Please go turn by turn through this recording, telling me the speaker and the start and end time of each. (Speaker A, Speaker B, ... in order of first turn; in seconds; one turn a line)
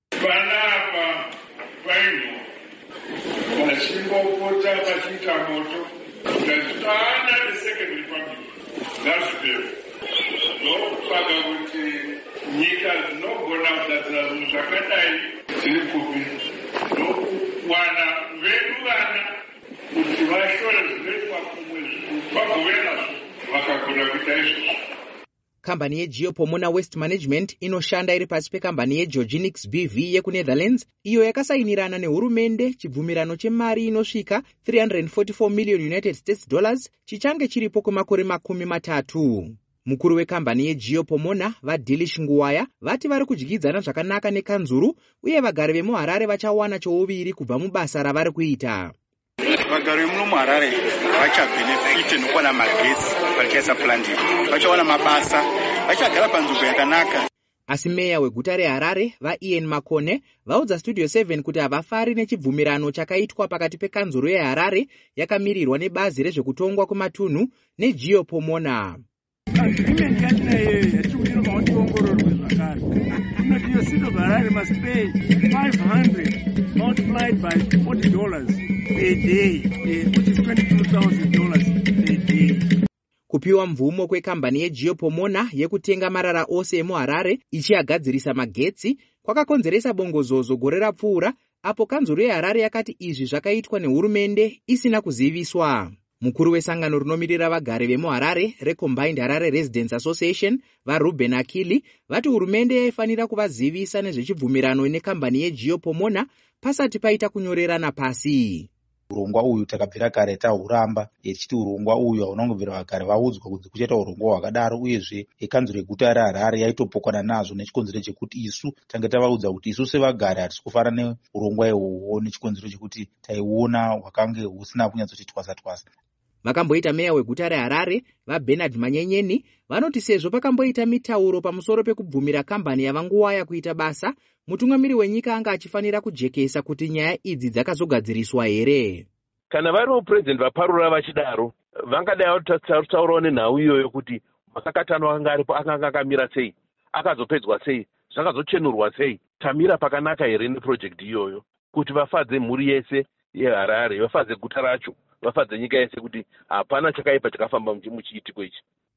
Speaker A: 0.2-2.5
Speaker A: 3.5-9.8
Speaker A: 10.6-16.4
Speaker A: 16.9-19.4
Speaker A: 19.9-24.8
Speaker B: 25.6-48.9
Speaker C: 49.7-57.3
Speaker B: 57.7-69.0
Speaker D: 69.5-82.6
Speaker B: 83.3-108.7
Speaker E: 109.1-125.9
Speaker B: 126.4-139.1
Speaker F: 139.5-158.6